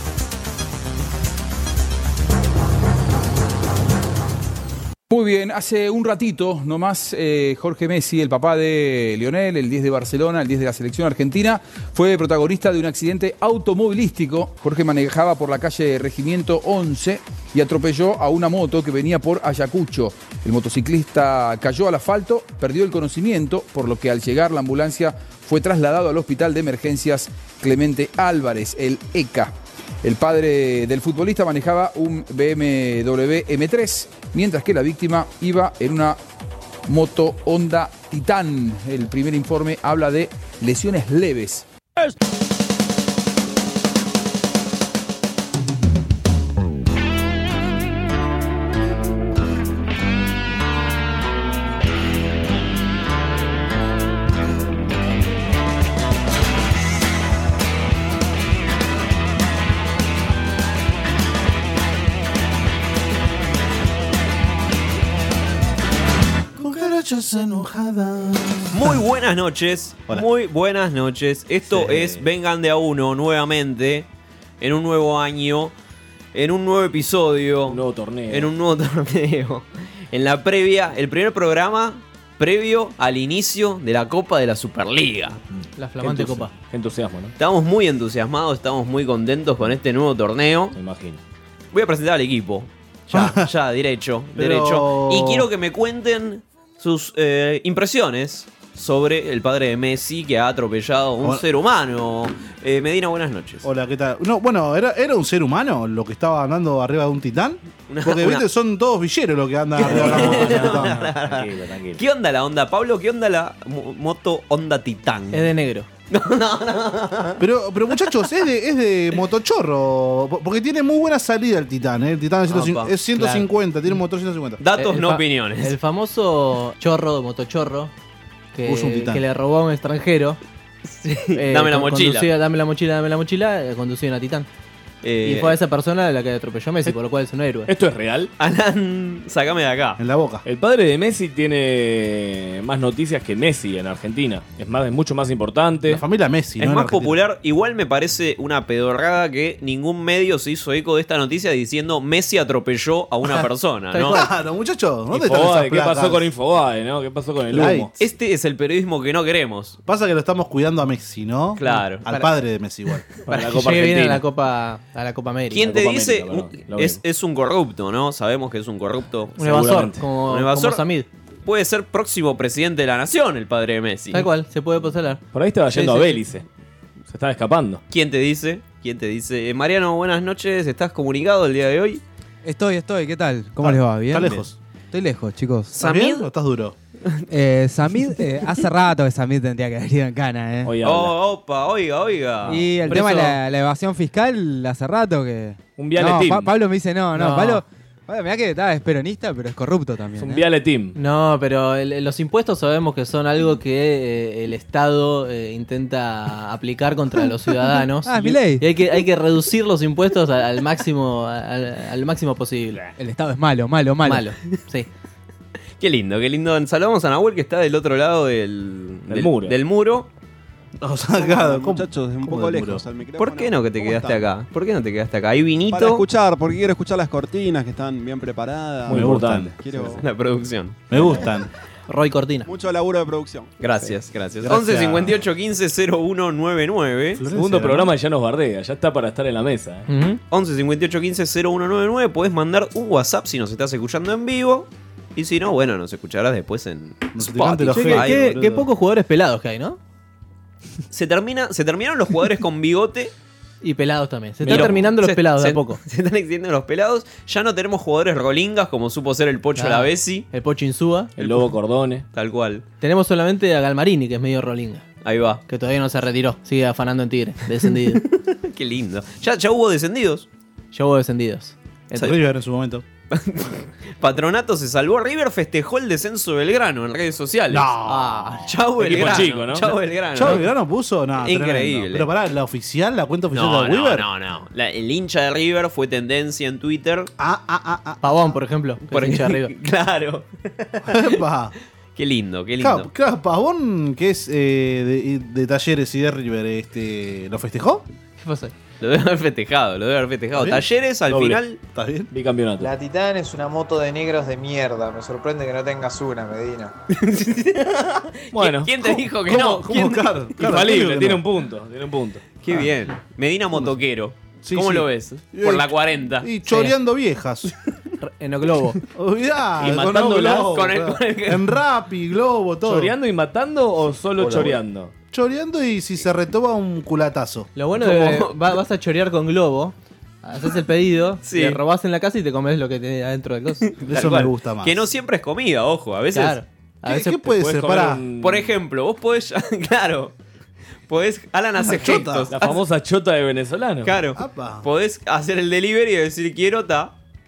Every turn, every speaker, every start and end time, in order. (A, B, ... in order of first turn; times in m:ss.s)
0:05.1-0:36.2 A
0:36.9-0:41.6 A
1:06.6-1:09.0 B
1:08.7-1:14.1 C
1:11.7-1:12.2 D
1:14.6-1:15.7 C
1:16.3-1:25.4 C
1:17.7-1:18.5 D
1:25.8-1:26.5 E
1:26.0-1:27.3 D
1:27.4-1:30.8 C
1:30.7-1:31.2 D
1:31.7-1:43.7 C
1:33.1-1:33.5 B
1:34.4-1:35.5 B
1:43.6-1:51.1 B
1:47.9-1:48.4 C
1:49.8-1:55.5 C
1:49.8-1:52.0 D
1:55.3-1:55.9 E
1:56.1-1:57.4 C
1:57.4-2:04.6 B
2:02.5-2:02.9 C
2:03.2-2:03.5 E
2:04.6-2:05.7 C
2:04.8-2:07.9 E
2:08.5-2:10.4 E
2:08.6-2:09.2 B
2:10.9-2:12.3 C
2:11.3-2:14.5 E
2:15.0-2:15.5 C
2:15.2-2:17.7 E
2:17.7-2:18.3 D
2:18.4-2:20.0 C
2:20.0-2:20.4 B
2:20.4-2:26.0 D
2:25.9-2:27.2 B
2:26.6-2:34.2 C
2:34.0-2:36.2 B
2:35.1-2:37.9 D
2:37.5-2:37.9 B
2:38.0-2:39.8 C
2:39.8-2:43.1 B
2:41.6-2:42.1 C
2:43.2-2:44.2 D
2:43.3-2:45.7 E
2:45.5-2:49.4 C
2:45.7-2:47.0 D
2:49.4-2:51.1 E
2:49.4-2:50.0 D
2:50.2-2:50.8 C
2:51.4-2:54.2 C
2:54.1-2:55.2 E
2:55.3-2:56.4 D
2:55.7-2:56.2 C
2:57.1-2:57.8 D
2:57.9-3:02.0 C
3:02.4-3:05.7 F
3:03.6-3:04.5 B
3:05.7-3:06.3 C
3:05.8-3:06.8 B
3:07.3-3:10.8 F
3:10.6-3:11.1 D
3:10.8-3:13.1 C
3:12.4-3:20.4 F
3:12.9-3:13.4 E
3:15.8-3:16.5 D
3:17.1-3:17.6 E
3:20.2-3:21.0 D
3:20.9-3:32.8 E
3:28.0-3:28.6 F
3:33.0-3:34.2 F
3:34.0-3:34.9 E
3:35.8-3:40.1 C
3:39.1-3:39.6 D
3:40.8-3:42.8 B
3:41.2-3:43.8 G
3:43.2-3:46.0 C
3:43.9-3:44.1 B
3:45.7-3:50.0 G
3:48.9-3:49.5 D
3:48.9-3:49.5 B
3:50.0-3:51.0 C
3:50.9-3:51.5 B
3:51.9-3:52.5 E
3:52.4-3:53.5 G
3:53.6-3:57.2 C
3:54.4-3:55.1 B
3:57.2-3:57.9 B
3:57.3-3:59.8 D
3:59.9-4:00.2 E
4:00.3-4:08.3 C
4:07.1-4:08.6 B
4:07.7-4:09.8 E
4:10.9-4:13.1 C
4:13.6-4:15.8 E
4:14.4-4:14.8 D
4:14.5-4:20.2 C
4:19.6-4:21.2 E
4:21.2-4:22.1 D
4:22.1-4:22.6 C
4:22.8-4:24.8 E
4:25.0-4:25.4 C
4:25.5-4:28.0 E
4:28.0-4:30.2 C
4:30.7-4:31.9 E
4:31.9-4:32.8 B
4:33.1-4:37.7 C
4:37.5-4:38.4 B
4:37.9-4:38.5 E
4:38.4-4:40.5 C
4:38.8-4:39.8 D
4:40.1-4:44.0 B
4:41.2-4:42.1 C
4:43.3-4:47.1 C
4:47.2-4:48.2 B
4:48.0-4:49.5 E
4:48.9-4:51.1 C
4:50.8-4:51.5 B
4:52.0-4:52.9 C
4:52.6-4:57.8 B
4:58.2-4:58.5 E
4:58.8-5:01.6 C
5:00.3-5:00.6 B
5:01.1-5:01.4 D
5:01.8-5:02.1 B
5:02.1-5:02.7 D
5:02.6-5:06.7 H
5:06.9-5:10.1 C
5:08.3-5:08.7 D
5:08.8-5:11.2 B
5:10.4-5:12.2 D
5:12.4-5:16.3 C
5:14.4-5:17.5 B
5:16.5-5:16.7 E
5:18.0-5:18.8 E
5:18.9-5:22.9 B
5:19.6-5:20.5 D
5:20.3-5:21.5 C
5:22.6-5:24.9 D
5:24.2-5:24.6 B
5:25.1-5:27.5 B
5:27.6-5:33.7 E
5:27.8-5:28.6 C
5:31.2-5:31.6 C
5:33.8-5:34.8 B
5:33.8-5:36.4 C
5:36.1-5:37.3 E
5:36.8-5:38.0 B
5:37.3-5:38.4 D
5:38.2-5:40.1 C
5:40.9-5:42.6 C
5:41.6-5:42.3 B
5:42.3-5:43.9 D
5:43.8-5:46.9 C
5:44.1-5:44.6 B